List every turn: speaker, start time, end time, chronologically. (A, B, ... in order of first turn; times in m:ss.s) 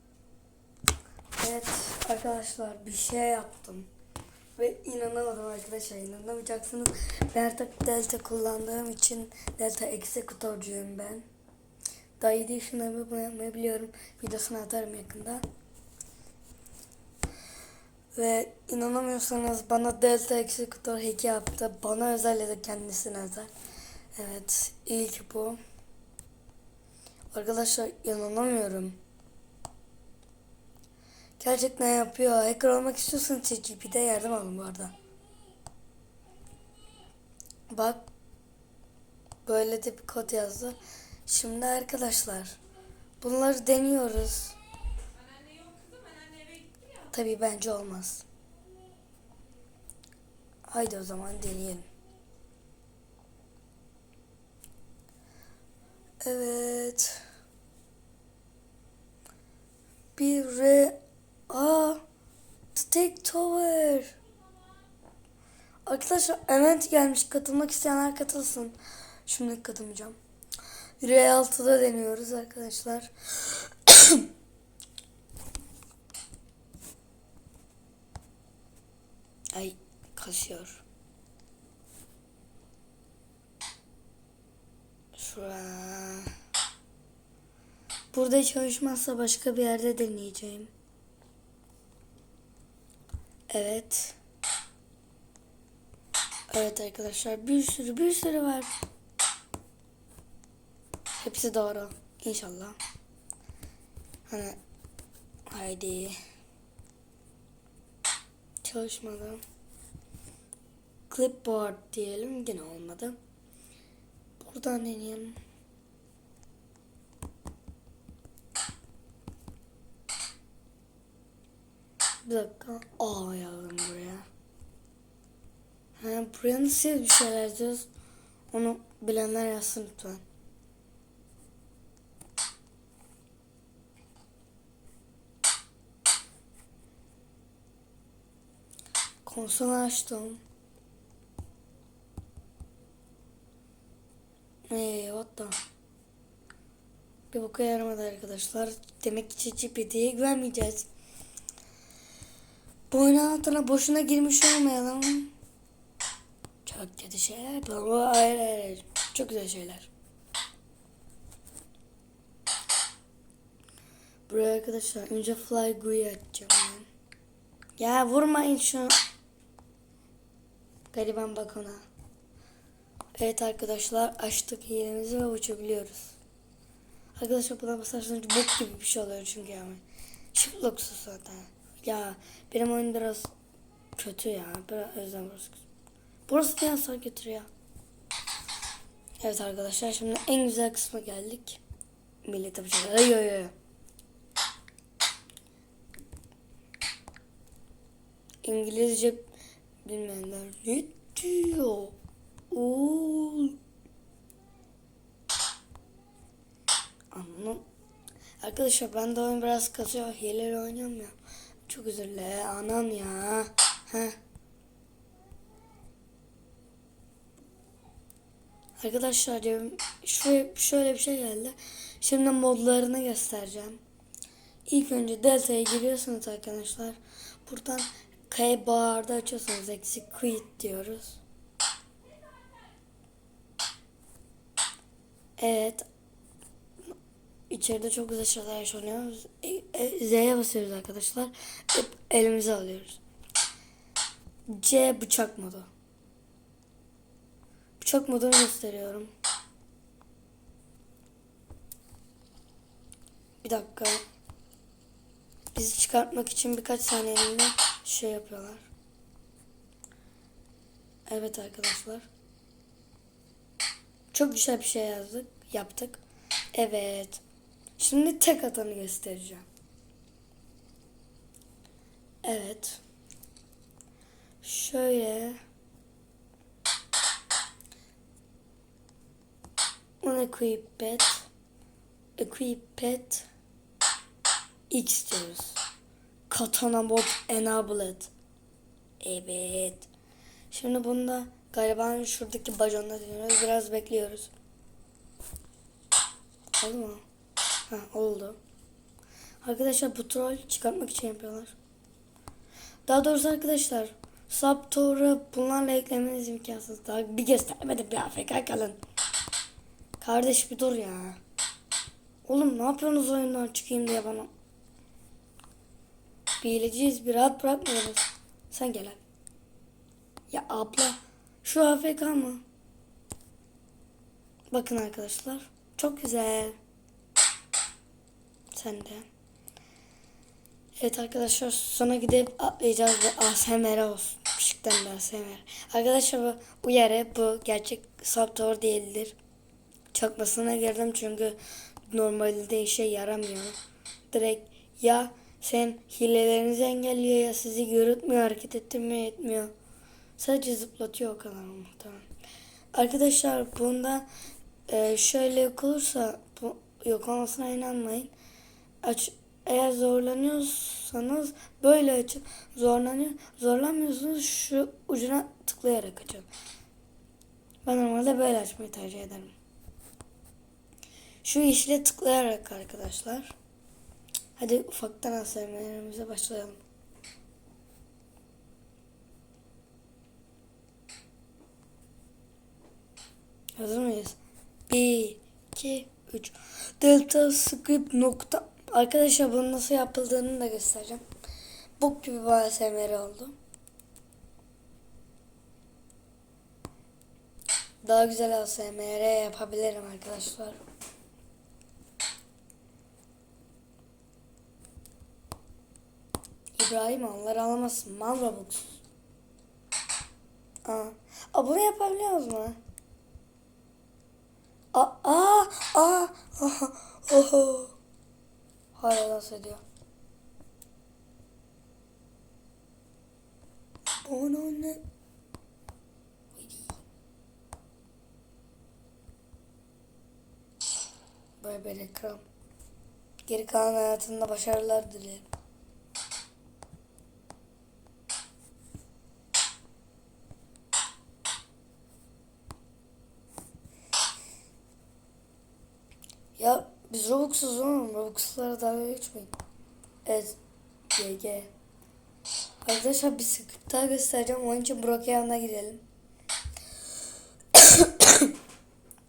0:01.4-0:03.9 A
0:04.6-0:11.3 A
0:12.2-0:15.4 A
0:18.2-0:23.5 A
0:24.1-0:25.6 A
0:27.3-0:29.0 A
0:31.4-0:34.9 A
0:37.7-0:38.0 A
0:39.4-0:42.6 A
0:43.2-0:44.6 A
0:47.1-0:48.2 A
0:50.7-0:51.9 A
0:56.2-0:57.2 A
1:00.2-1:01.0 A
1:01.5-1:02.0 A
1:02.7-1:04.2 A
1:05.9-1:10.2 A
1:11.0-1:14.3 A
1:19.5-1:20.8 A
1:25.2-1:26.3 A
1:28.1-1:30.7 A
1:33.5-1:34.2 A
1:36.5-1:38.7 A
1:41.1-1:42.8 A
1:44.3-1:44.6 A
1:45.5-1:46.2 A
1:48.6-1:49.4 A
1:51.1-1:53.2 A
1:54.4-1:55.4 A
2:02.2-2:04.3 A
2:06.0-2:07.9 A
2:08.5-2:10.2 A
2:19.2-2:20.4 A
2:24.7-2:25.6 A
2:27.3-2:30.9 A
2:32.9-2:35.3 A
2:36.6-2:39.9 A
2:44.3-2:46.9 A
2:47.8-2:49.0 A
2:50.9-2:51.8 A
2:53.2-2:56.2 A
2:57.2-3:03.3 A
3:04.0-3:05.6 A
3:06.3-3:07.5 A
3:09.2-3:11.6 A
3:12.2-3:13.5 A
3:18.4-3:19.3 A
3:19.8-3:22.0 A
3:22.5-3:23.6 A
3:27.1-3:27.6 A
3:28.4-3:31.2 A
3:31.7-3:34.2 A
3:38.8-3:43.8 A
3:44.7-3:51.2 A
3:55.4-3:55.9 A
3:57.5-4:03.0 A
4:04.5-4:05.7 A
4:07.8-4:09.1 A
4:13.4-4:14.0 A
4:15.6-4:18.7 A
4:21.1-4:22.1 A
4:24.1-4:26.0 A
4:26.5-4:27.2 A
4:27.8-4:29.4 A
4:32.2-4:32.8 A
4:34.4-4:35.4 A
4:40.0-4:41.3 A
4:42.2-4:43.3 A
4:44.7-4:45.6 A
4:46.3-4:48.1 A
4:49.0-4:49.9 A
4:50.5-4:54.3 A
4:56.6-4:57.0 A
4:57.7-4:58.4 A
4:59.4-5:01.6 A
5:02.9-5:08.8 A
5:10.0-5:11.2 A
5:12.2-5:14.3 A
5:16.4-5:19.0 A
5:20.3-5:22.4 A
5:24.5-5:26.6 A
5:28.5-5:29.1 A
5:30.8-5:39.2 A
5:39.9-5:43.6 A
5:44.1-5:49.5 A
5:50.2-5:52.1 A
5:52.7-5:54.1 A
5:54.7-5:58.1 A
5:58.8-6:06.3 A
6:07.6-6:09.4 A
6:11.2-6:13.3 A
6:14.4-6:16.6 A
6:23.6-6:24.2 A
6:24.7-6:31.0 A
6:31.8-6:33.4 A
6:37.8-6:40.6 A
6:46.6-6:48.8 A
6:50.6-6:52.6 A
6:54.7-6:57.8 A
6:58.8-6:59.6 A
7:04.0-7:04.8 A
7:06.3-7:06.8 A
7:11.4-7:12.2 A
7:13.3-7:15.3 A
7:26.4-7:29.3 A
7:30.0-7:30.4 A
7:30.9-7:31.5 A
7:32.6-7:35.8 A
7:37.5-7:38.3 A